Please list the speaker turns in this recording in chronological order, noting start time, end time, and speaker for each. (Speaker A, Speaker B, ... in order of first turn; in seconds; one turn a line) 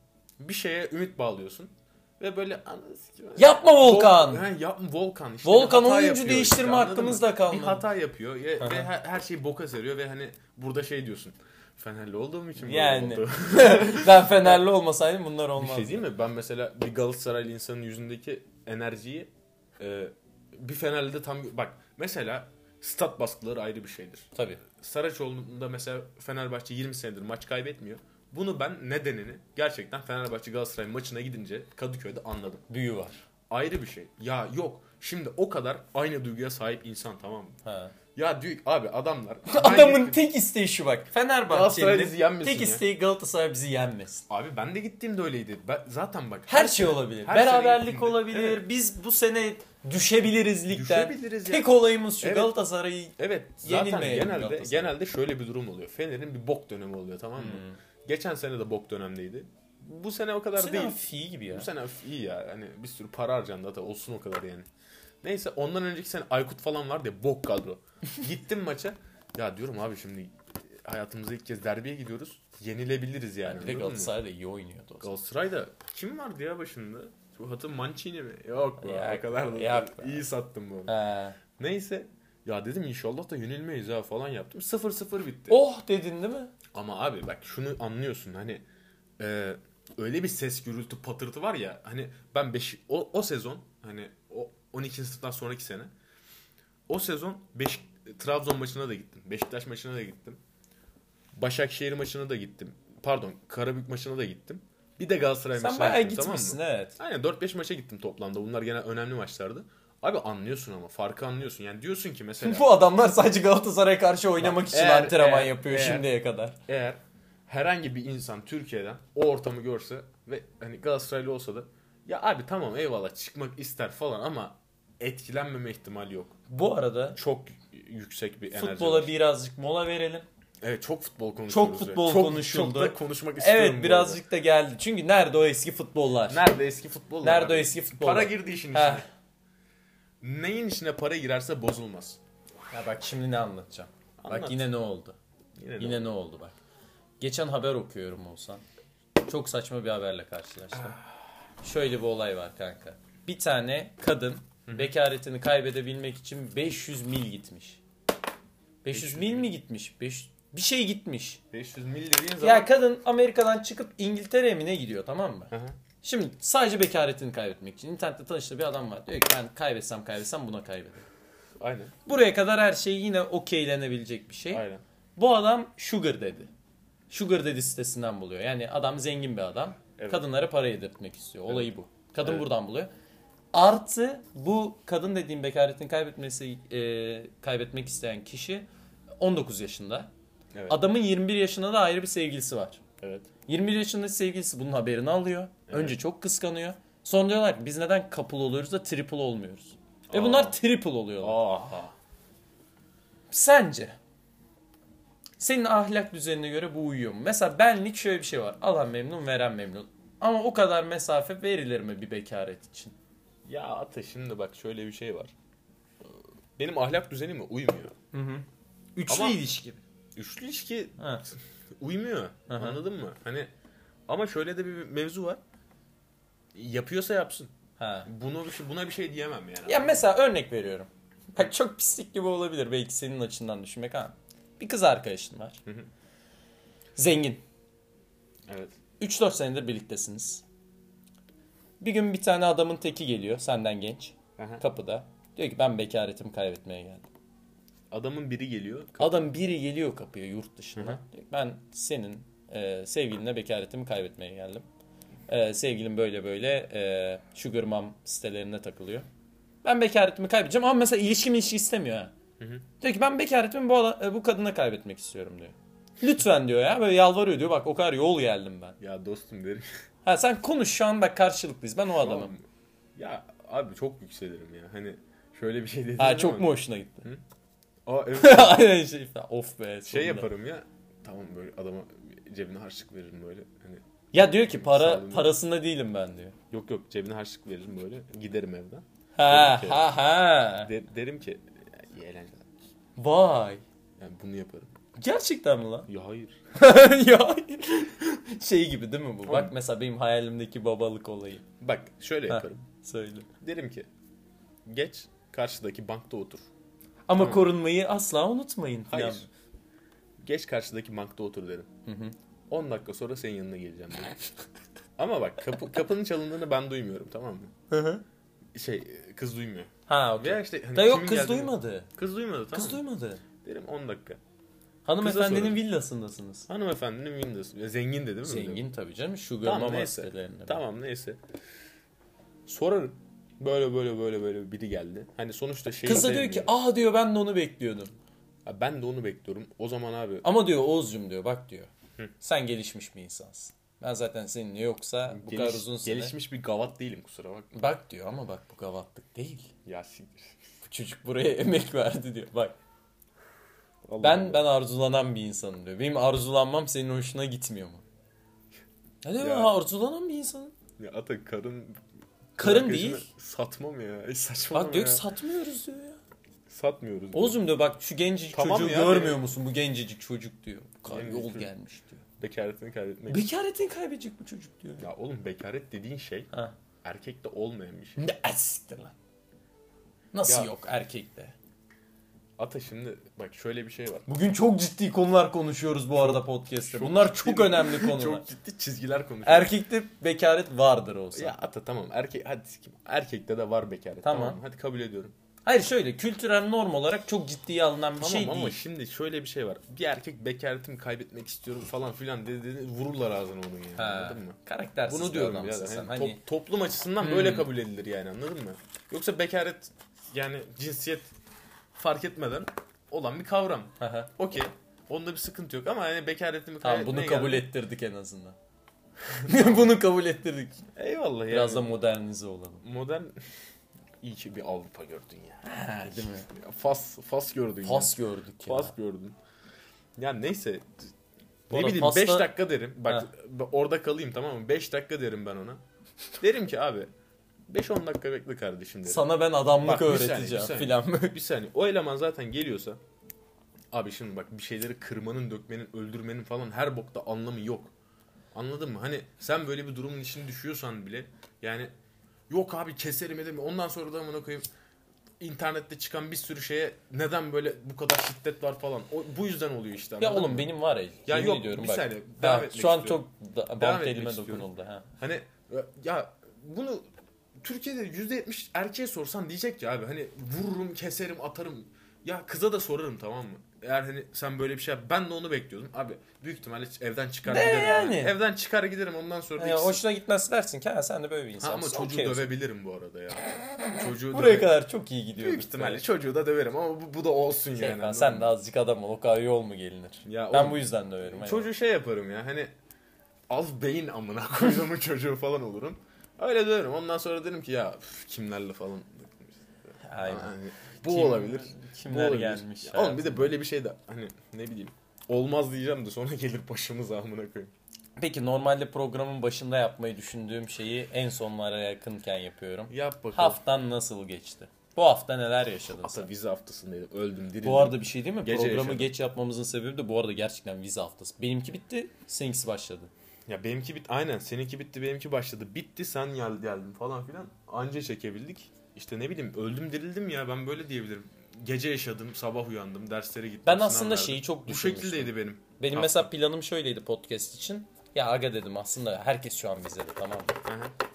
Speaker A: 0.4-14.6
Speaker B: 3.4-4.5
Speaker B: 5.4-7.8
Speaker B: 8.6-8.9
Speaker B: 12.6-16.0
Speaker A: 15.6-32.6
Speaker B: 24.3-24.6
Speaker B: 32.7-33.2
Speaker A: 33.5-37.6
Speaker B: 37.6-37.9
Speaker A: 38.1-40.2
Speaker B: 39.5-44.2
Speaker A: 41.5-42.8
Speaker A: 44.3-48.6
Speaker B: 46.5-54.9
Speaker A: 50.7-52.5
Speaker A: 53.2-64.7
Speaker B: 57.4-57.8
Speaker B: 60.5-61.7
Speaker A: 65.2-74.2
Speaker B: 73.4-75.1
Speaker A: 75.0-81.0
Speaker B: 78.8-80.2
Speaker B: 80.9-81.4
Speaker A: 81.6-85.6
Speaker B: 85.5-86.5
Speaker A: 86.7-88.6
Speaker A: 89.2-95.9
Speaker A: 96.9-100.4
Speaker A: 101.3-112.7
Speaker B: 105.6-107.0
Speaker B: 112.4-116.6
Speaker A: 114.4-116.1
Speaker A: 116.7-126.4
Speaker B: 126.5-127.2
Speaker A: 127.2-129.1
Speaker B: 128.5-130.3
Speaker A: 130.6-134.2
Speaker B: 131.5-136.4
Speaker A: 136.3-139.0
Speaker B: 137.2-139.1
Speaker A: 140.2-142.2
Speaker B: 142.7-145.2
Speaker A: 144.2-144.7
Speaker A: 145.6-146.1
Speaker B: 145.8-146.5
Speaker B: 147.2-148.6
Speaker B: 149.2-151.0
Speaker B: 151.6-157.8
Speaker A: 154.7-154.9
Speaker B: 158.8-161.4
Speaker A: 158.9-159.5
Speaker A: 161.5-162.7
Speaker B: 162.4-165.5
Speaker A: 165.5-165.8
Speaker B: 166.0-171.0
Speaker A: 171.6-171.9
Speaker B: 172.1-174.6
Speaker A: 174.5-174.8
Speaker B: 175.2-176.5
Speaker B: 177.1-182.9
Speaker A: 180.0-180.2
Speaker A: 181.5-182.5
Speaker B: 183.5-188.7
Speaker B: 189.2-190.1
Speaker A: 190.5-190.8
Speaker B: 190.7-192.8
Speaker A: 193.0-193.3
Speaker B: 193.5-201.4
Speaker A: 195.7-196.0
Speaker A: 200.1-200.6
Speaker A: 201.2-201.9
Speaker B: 203.3-203.9
Speaker B: 205.4-212.9
Speaker A: 213.4-215.3
Speaker A: 216.6-217.9
Speaker B: 218.1-219.8
Speaker A: 219.1-219.4
Speaker A: 220.2-223.5
Speaker B: 221.0-221.2
Speaker B: 222.5-222.8
Speaker A: 224.1-225.4
Speaker A: 226.5-227.5
Speaker B: 227.8-228.1
Speaker A: 228.1-230.0
Speaker B: 229.7-235.6
Speaker B: 237.0-237.4
Speaker A: 238.5-238.8
Speaker B: 239.0-240.4
Speaker B: 241.8-247.1
Speaker A: 244.4-244.6
Speaker A: 247.9-249.3
Speaker B: 249.0-254.6
Speaker A: 250.8-251.0
Speaker B: 255.3-259.1
Speaker B: 259.6-262.1
Speaker A: 262.4-262.6
Speaker B: 262.8-268.8
Speaker A: 268.8-269.6
Speaker B: 270.0-272.3
Speaker A: 271.9-272.4
Speaker A: 272.9-277.2
Speaker B: 276.0-277.1
Speaker A: 277.9-278.7
Speaker B: 278.2-280.3
Speaker A: 279.9-285.3
Speaker B: 284.1-286.4
Speaker A: 286.5-289.9
Speaker B: 289.1-290.7
Speaker A: 290.6-292.5
Speaker B: 293.0-293.6
Speaker A: 294.0-294.7
Speaker B: 295.0-295.9
Speaker A: 295.9-296.4
Speaker B: 296.5-301.4
Speaker A: 299.2-299.5
Speaker A: 301.6-302.6
Speaker B: 302.3-303.3
Speaker A: 303.4-303.9
Speaker A: 304.6-306.5
Speaker B: 307.1-309.3
Speaker A: 307.2-307.5
Speaker A: 308.9-309.3
Speaker A: 310.2-311.7
Speaker B: 311.9-312.1
Speaker A: 312.5-314.3
Speaker A: 315.0-317.5
Speaker B: 317.7-318.0
Speaker A: 318.5-322.8
Speaker B: 319.9-321.9
Speaker B: 322.5-323.2
Speaker A: 323.4-324.2
Speaker B: 324.9-326.5
Speaker A: 325.0-325.6
Speaker A: 326.5-328.6
Speaker B: 328.2-330.6
Speaker A: 329.4-331.2
Speaker A: 332.4-336.5
Speaker B: 335.8-337.9
Speaker A: 338.4-340.2
Speaker B: 340.2-341.7
Speaker B: 342.2-346.1
Speaker A: 345.1-347.5
Speaker B: 347.5-349.5
Speaker A: 349.6-350.4
Speaker B: 350.6-352.6
Speaker A: 353.9-354.4
Speaker B: 354.0-357.8
Speaker B: 359.0-360.5
Speaker A: 359.2-359.5
Speaker A: 360.8-361.8
Speaker B: 362.4-363.1
Speaker A: 362.4-365.1
Speaker B: 364.5-366.0
Speaker A: 366.5-367.4
Speaker B: 367.1-372.0
Speaker A: 368.3-369.2
Speaker A: 370.9-371.5
Speaker A: 372.2-373.3
Speaker B: 373.1-374.9
Speaker A: 374.8-376.3
Speaker A: 376.8-378.0
Speaker B: 378.0-378.9
Speaker B: 380.1-381.3
Speaker A: 380.2-380.5
Speaker A: 382.4-384.1
Speaker B: 384.1-388.3
Speaker A: 385.9-389.5
Speaker B: 389.2-391.3
Speaker A: 391.1-395.1
Speaker B: 394.0-394.4
Speaker B: 395.4-398.6
Speaker A: 398.0-411.1
Speaker B: 403.8-406.2
Speaker B: 407.0-407.5
Speaker A: 411.7-417.5
Speaker B: 413.8-414.1
Speaker B: 416.6-418.4
Speaker A: 419.1-419.7
Speaker B: 419.2-420.6
Speaker A: 420.8-421.7
Speaker B: 421.3-422.6
Speaker A: 422.6-423.1
Speaker A: 424.0-429.2
Speaker B: 425.4-426.3
Speaker B: 427.6-428.7
Speaker A: 430.0-430.9
Speaker A: 431.5-435.6
Speaker B: 431.5-432.3
Speaker A: 436.2-436.9
Speaker A: 437.5-439.1
Speaker B: 438.9-441.1
Speaker A: 439.6-442.8
Speaker A: 443.7-447.7
Speaker A: 448.3-451.7
Speaker A: 452.3-454.4
Speaker A: 455.2-460.5
Speaker B: 460.0-464.9
Speaker A: 461.1-463.0
Speaker A: 463.6-464.5
Speaker A: 465.0-479.8
Speaker B: 477.2-478.1
Speaker B: 479.4-482.3
Speaker A: 481.4-484.6
Speaker B: 484.1-485.8
Speaker A: 485.2-488.3
Speaker B: 487.6-491.5
Speaker A: 490.1-492.5
Speaker A: 493.3-507.5
Speaker B: 499.8-503.3
Speaker B: 508.0-516.1
Speaker A: 512.7-513.4
Speaker A: 515.8-518.9
Speaker B: 517.4-522.9
Speaker A: 523.3-536.1
Speaker B: 533.4-540.4
Speaker A: 540.5-540.7